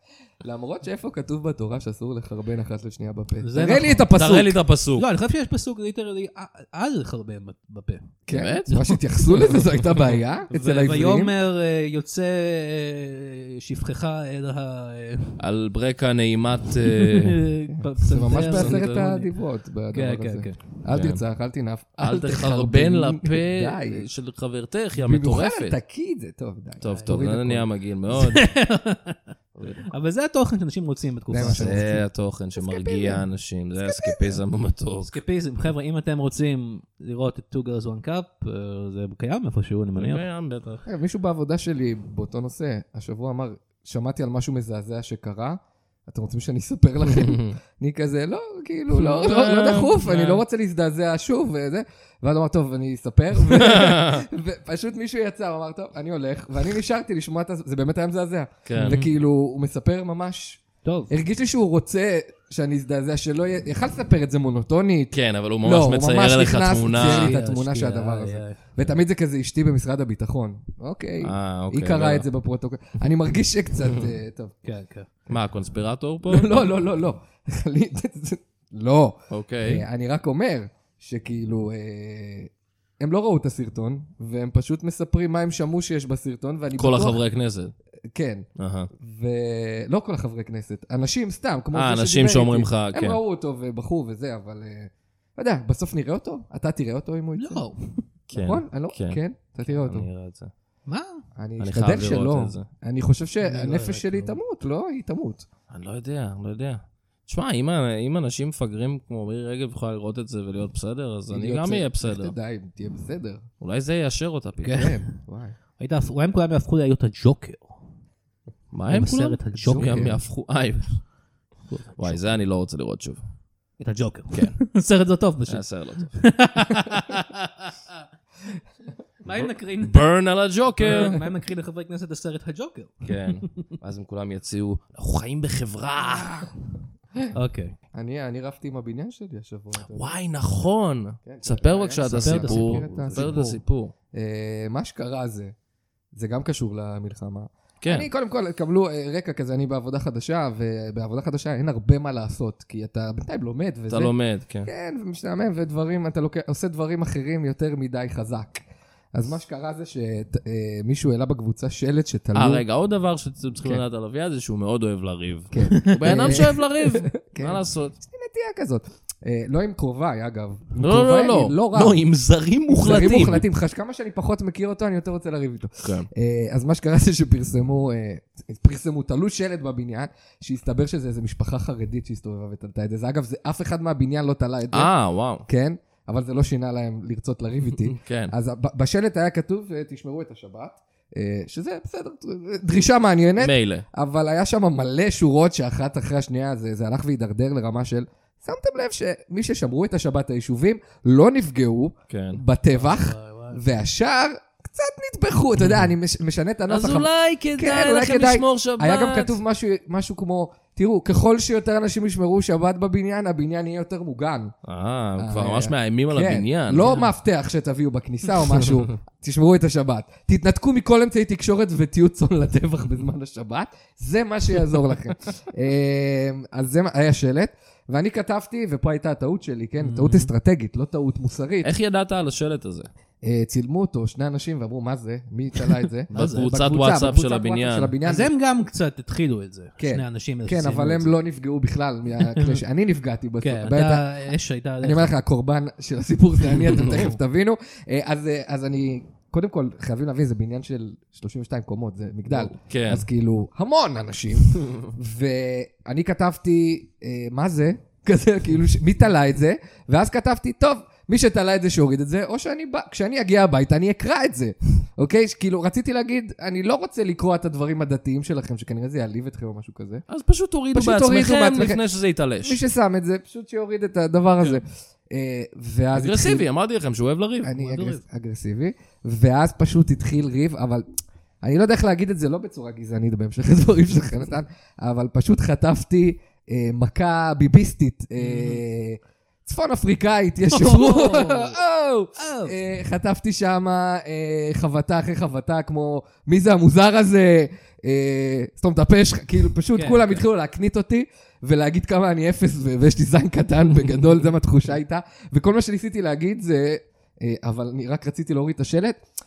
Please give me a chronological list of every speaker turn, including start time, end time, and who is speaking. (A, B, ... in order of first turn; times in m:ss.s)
0:00.4-0:04.6 A
0:03.4-0:04.1 B
0:04.1-0:05.1 C
0:05.0-0:08.1 B
0:08.3-0:11.4 A
0:08.3-0:08.9 C
0:10.5-0:15.4 B
0:15.4-0:17.4 C
0:16.8-0:19.2 B
0:17.7-0:24.0 A
0:18.3-0:19.2 C
0:19.9-0:20.6 B
0:20.9-0:21.2 C
0:22.0-0:25.8 C
0:24.9-0:27.7 A
0:26.8-0:28.4 C
0:26.9-0:27.2 B
0:28.1-0:29.2 B
0:29.6-0:29.8 A
0:29.9-0:31.9 B
0:31.3-0:32.0 A
0:31.4-0:35.2 C
0:32.6-0:33.2 A
0:33.8-0:34.4 A
0:35.0-0:40.2 B
0:40.0-0:40.8 C
0:40.9-1:14.5 A
0:47.2-0:47.5 C
0:48.9-0:50.4 C
0:53.5-0:54.2 C
0:58.6-0:59.0 C
1:00.8-1:01.1 B
1:05.1-1:07.3 C
1:06.9-1:08.6 B
1:11.2-1:12.2 C
1:14.6-1:15.1 B
1:15.3-1:16.6 C
1:16.3-1:27.2 A
1:19.3-1:19.8 C
1:26.7-1:27.7 C
1:28.1-1:28.4 A
1:28.6-1:28.9 C
1:29.0-1:37.7 A
1:31.7-1:33.2 C
1:37.4-1:38.0 B
1:38.3-1:40.5 C
1:38.3-1:40.1 A
1:40.9-1:41.2 B
1:41.4-1:45.4 A
1:41.6-1:42.7 C
1:43.4-1:44.4 B
1:45.7-1:52.4 C
1:51.3-1:53.4 A
1:53.6-1:54.9 C
1:54.6-1:55.1 B
1:54.7-1:55.5 A
1:55.8-1:57.8 B
1:58.7-2:01.0 C
1:58.9-2:00.1 B
1:59.6-2:00.2 A
2:01.7-2:02.4 B
2:02.0-2:03.2 C
2:03.8-2:08.0 B
2:05.5-2:06.2 C
2:09.2-2:10.1 B
2:09.3-2:11.2 C
2:10.8-2:13.4 B
2:10.9-2:11.2 A
2:13.0-2:16.5 C
2:17.3-2:17.7 B
2:17.9-2:20.1 A
2:19.9-2:23.9 C
2:21.2-2:23.6 A
2:22.0-2:23.5 B
2:24.1-2:25.5 A
2:26.1-2:34.1 A
2:27.8-2:28.1 C
2:33.9-2:34.7 C
2:34.6-2:38.6 A
2:39.1-2:42.6 A
2:42.3-2:48.0 C
2:45.5-2:52.0 A
2:45.7-2:46.2 B
2:50.8-2:53.4 C
2:52.7-3:04.9 A
2:55.8-2:56.1 C
3:04.7-3:05.4 C
3:05.4-3:34.5 A
3:07.8-3:08.3 C
3:13.4-3:13.8 C
3:22.1-3:22.4 C
3:22.7-3:23.6 B
3:26.7-3:29.4 C
3:34.6-3:37.0 C
3:35.2-3:51.7 A
3:36.8-3:37.0 B
3:49.8-3:50.3 B
3:51.6-3:52.9 C
3:53.2-3:58.3 A
3:56.1-3:56.5 B
3:56.1-3:57.9 C
3:58.0-4:01.1 B
3:59.8-4:04.3 A
4:02.2-4:02.6 B
4:03.4-4:05.1 B
4:04.8-4:30.0 A
4:06.7-4:07.1 B
4:12.6-4:13.0 C
4:14.6-4:14.9 C
4:30.1-4:32.6 C
4:30.7-4:31.8 A
4:32.4-4:36.4 A
4:35.9-4:37.9 C
4:37.4-4:40.9 A
4:41.4-5:09.0 A
4:48.2-4:48.6 B
4:50.5-4:51.6 B
4:52.2-4:52.6 B
4:59.7-5:00.2 B